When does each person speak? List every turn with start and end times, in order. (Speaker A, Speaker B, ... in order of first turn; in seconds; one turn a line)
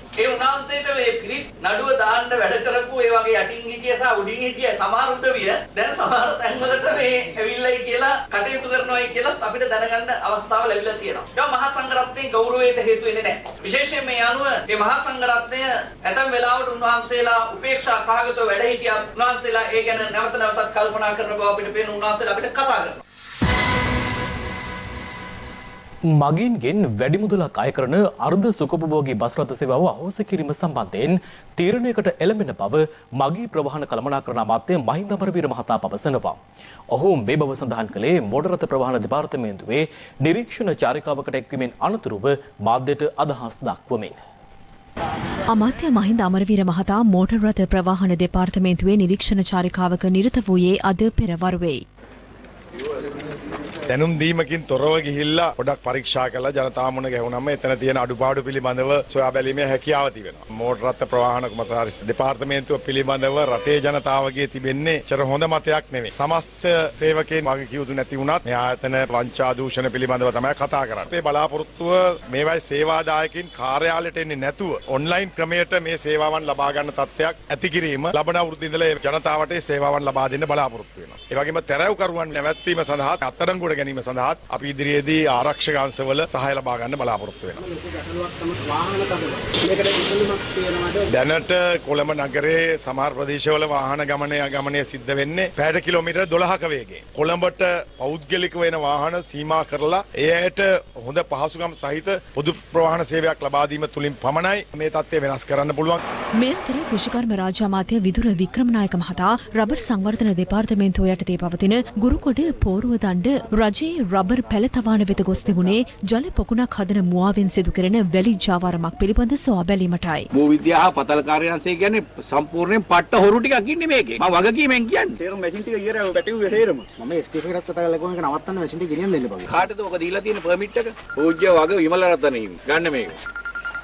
Speaker A: 0.2-23.0
Speaker B: 26.1-36.4
Speaker B: 36.9-44.2
Speaker C: 45.5-51.8
Speaker D: 53.9-87.6
Speaker E: 87.5-91.1
Speaker D: 91.1-106.0
Speaker C: 106.4-120.3
Speaker F: 120.3-126.8
Speaker E: 127.0-129.7
Speaker F: 129.5-133.2